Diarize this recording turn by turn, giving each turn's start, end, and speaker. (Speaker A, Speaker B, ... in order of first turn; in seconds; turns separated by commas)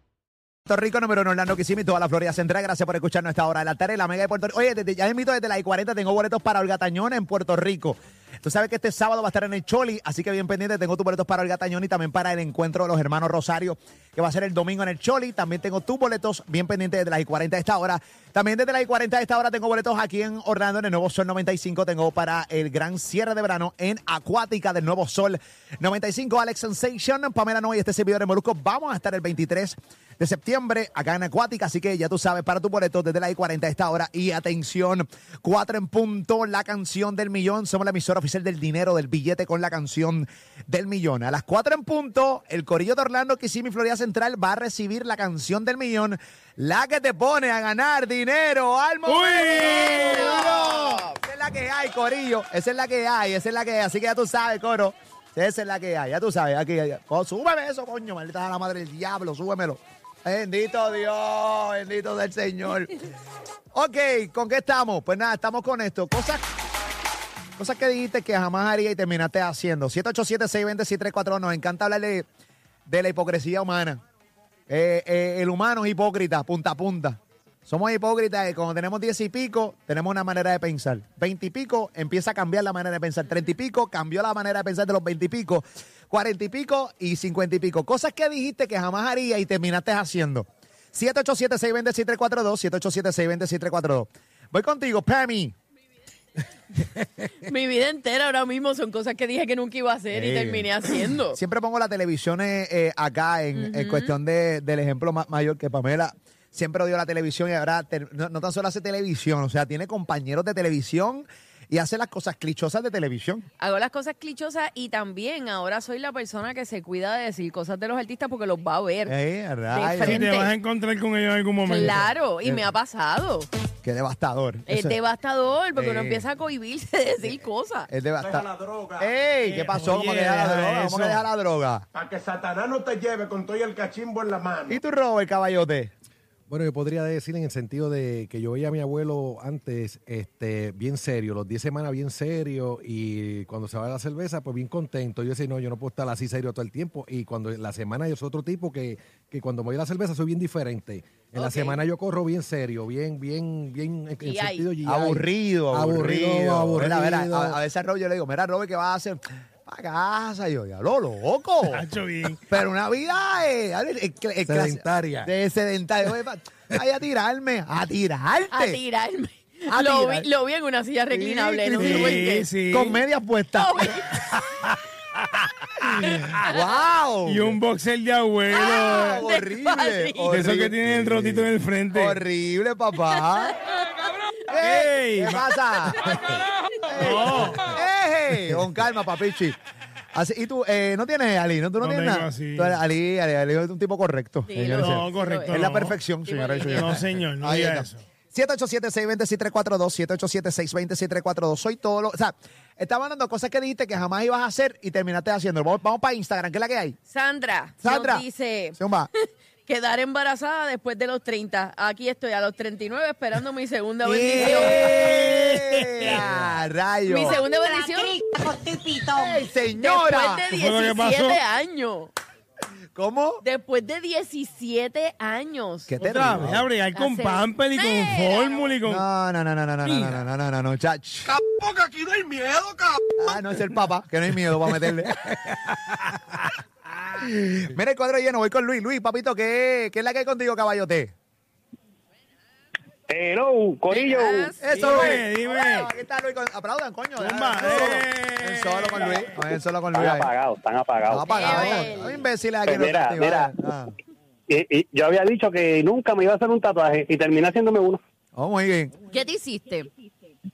Speaker A: 0.7-63.0, Speaker B: 49.1-50.3, Speaker C: 49.6-51.2, Speaker A: 63.7-66.4, Speaker A: 67.6-72.3, Speaker A: 72.9-74.0, Speaker A: 74.7-95.5, Speaker C: 97.0-101.4, Speaker A: 100.1-113.5, Speaker C: 103.5-104.2, Speaker C: 113.6-119.2, Speaker A: 119.1-120.2, Speaker C: 119.7-120.5, Speaker B: 120.0-122.1, Speaker C: 121.7-123.5, Speaker A: 122.4-122.7, Speaker A: 123.8-125.0, Speaker C: 124.7-127.9, Speaker A: 125.8-126.3, Speaker A: 127.9-128.5, Speaker D: 128.2-129.1, Speaker A: 129.0-131.8, Speaker B: 129.4-131.3, Speaker D: 131.9-134.8, Speaker A: 134.7-135.9, Speaker E: 136.5-155.2, Speaker C: 151.3-151.8, Speaker C: 154.2-154.7, Speaker A: 154.8-161.8, Speaker E: 155.7-157.6, Speaker B: 161.7-162.4, Speaker A: 162.5-168.8, Speaker E: 164.5-165.3, Speaker C: 168.5-172.5, Speaker A: 169.7-170.3, Speaker A: 171.1-173.9, Speaker B: 171.8-173.0, Speaker C: 173.5-174.4, Speaker A: 175.9-177.6, Speaker B: 177.3-179.2, Speaker C: 178.5-180.3, Speaker A: 178.7-181.4, Speaker B: 180.3-182.2, Speaker A: 181.9-183.6, Speaker A: 184.5-186.1, Speaker B: 184.5-185.4, Speaker A: 186.9-189.6, Speaker B: 187.0-187.8, Speaker A: 190.2-207.0, Speaker B: 191.8-192.8, Speaker C: 194.5-195.7, Speaker B: 194.7-196.0, Speaker C: 196.2-197.0, Speaker B: 196.8-198.0, Speaker C: 207.1-208.8, Speaker A: 207.8-208.2, Speaker A: 208.8-209.1, Speaker C: 209.7-214.9, Speaker A: 214.0-217.4, Speaker B: 214.9-216.2, Speaker C: 217.1-218.2, Speaker A: 218.4-220.4, Speaker C: 219.7-222.1, Speaker B: 220.5-221.4, Speaker A: 222.9-223.4, Speaker C: 223.4-226.0, Speaker A: 225.9-226.7, Speaker B: 226.0-229.0, Speaker C: 226.9-228.7, Speaker A: 228.8-231.4, Speaker B: 229.8-230.2, Speaker D: 231.3-233.0, Speaker A: 233.2-235.3, Speaker A: 237.2-241.1, Speaker F: 243.1-245.1, Speaker C: 243.9-245.0, Speaker A: 244.6-250.3, Speaker B: 244.7-245.9, Speaker B: 247.2-249.4, Speaker F: 249.9-251.9, Speaker A: 251.1-253.9, Speaker C: 251.3-252.2, Speaker F: 252.7-253.5, Speaker F: 254.5-258.0, Speaker A: 258.4-258.9, Speaker C: 259.1-259.9